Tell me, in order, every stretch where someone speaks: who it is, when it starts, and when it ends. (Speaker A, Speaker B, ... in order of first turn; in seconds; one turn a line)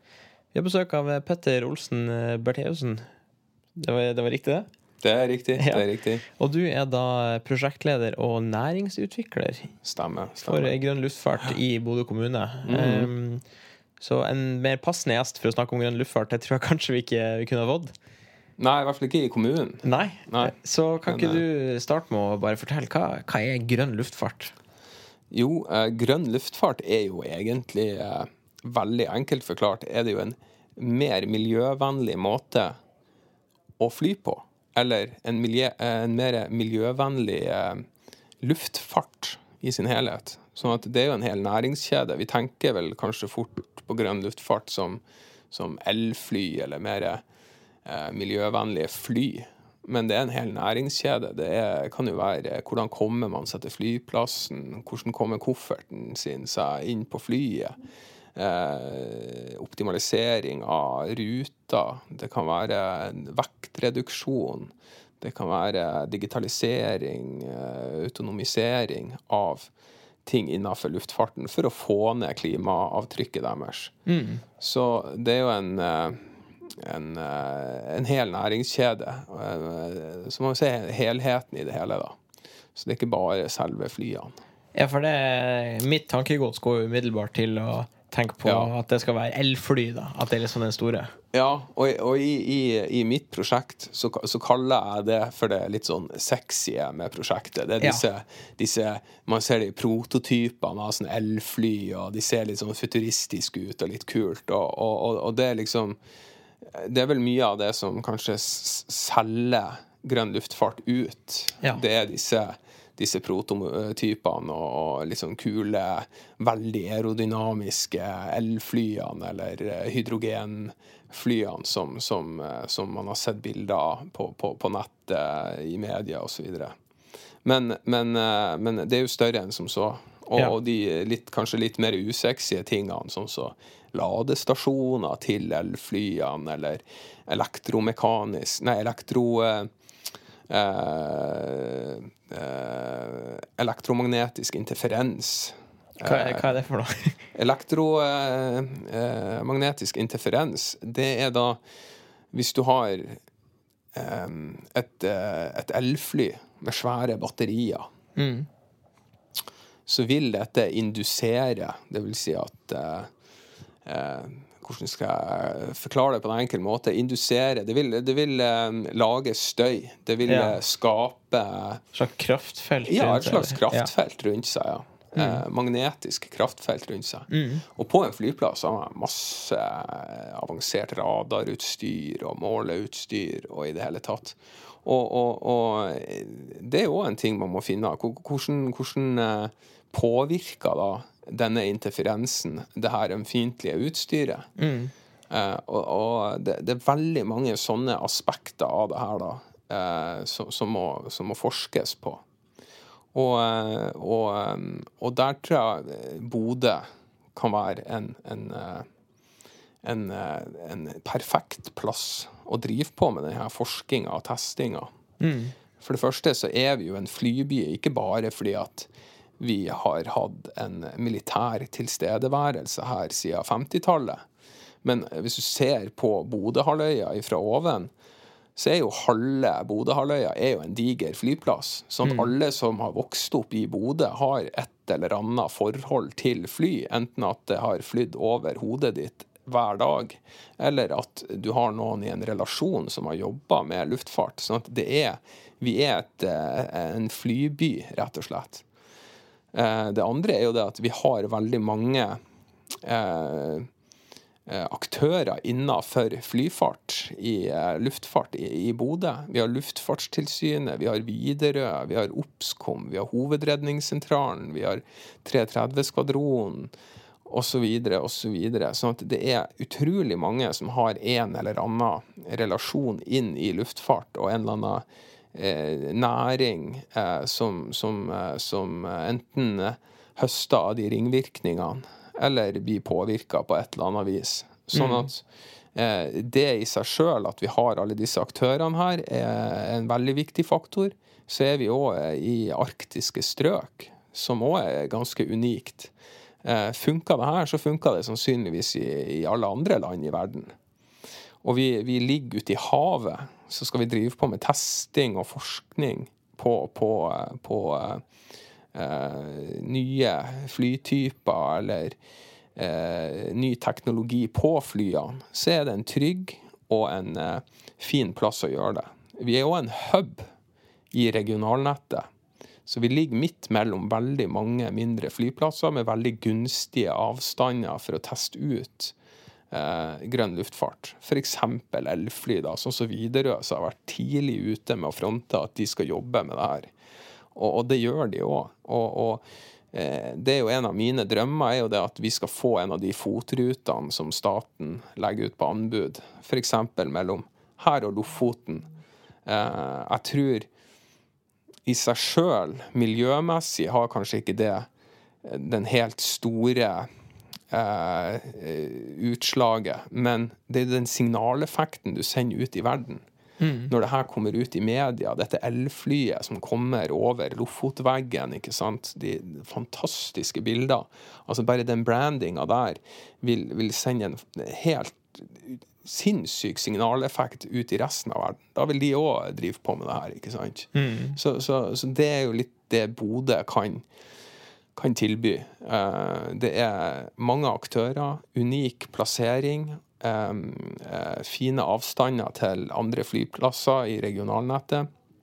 Speaker A: 0.5-3.0
Speaker A: 3.8-4.7
Speaker B: 5.0-6.2
Speaker A: 5.5-9.7
Speaker B: 9.8-10.7
Speaker A: 10.4-13.4
Speaker B: 12.6-13.1
Speaker A: 14.0-17.9
Speaker B: 18.6-20.5
Speaker A: 19.8-24.5
Speaker B: 21.1-21.4
Speaker B: 25.3-32.7
Speaker B: 33.8-37.8
Speaker B: 38.4-47.2
Speaker B: 47.9-57.8
Speaker B: 58.4-69.7
Speaker B: 70.2-73.9
Speaker A: 74.1-74.4
Speaker B: 74.6-82.2
Speaker B: 82.7-84.3
Speaker A: 84.7-91.1
Speaker B: 88.4-88.7
Speaker B: 91.3-106.0
Speaker A: 97.8-98.0
Speaker B: 106.7-126.7
Speaker B: 127.4-139.7
Speaker B: 140.5-146.5
Speaker A: 146.0-147.2
Speaker B: 147.3-151.6
Speaker B: 152.3-153.2
Speaker B: 153.9-157.9
Speaker A: 158.2-158.5
Speaker B: 159.9-163.1
Speaker B: 163.8-171.8
Speaker A: 170.2-170.6
Speaker A: 171.9-173.9
Speaker B: 172.8-194.5
Speaker A: 175.2-175.4
Speaker A: 177.3-177.6
Speaker A: 194.6-194.9
Speaker B: 195.3-202.2
Speaker B: 203.1-208.8
Speaker B: 209.8-214.9
Speaker A: 215.2-215.5
Speaker B: 215.8-224.2
Speaker B: 224.8-227.9
Speaker B: 228.6-248.6
Speaker A: 232.0-232.3
Speaker B: 249.5-252.2
Speaker B: 252.8-253.7
Speaker B: 254.5-266.7
Speaker B: 267.2-295.9
Speaker A: 284.7-285.1
Speaker B: 296.4-300.5
Speaker B: 301.4-308.0
Speaker B: 308.7-311.9
Speaker B: 312.6-320.2
Speaker B: 320.9-322.1
Speaker B: 322.6-328.9
Speaker B: 329.5-336.7
Speaker B: 337.3-348.7
Speaker B: 349.2-350.5
Speaker B: 351.6-354.7
Speaker B: 355.2-356.9
Speaker B: 357.5-363.0
Speaker A: 363.4-363.7
Speaker B: 363.7-383.9
Speaker A: 380.7-381.2
Speaker B: 384.8-394.9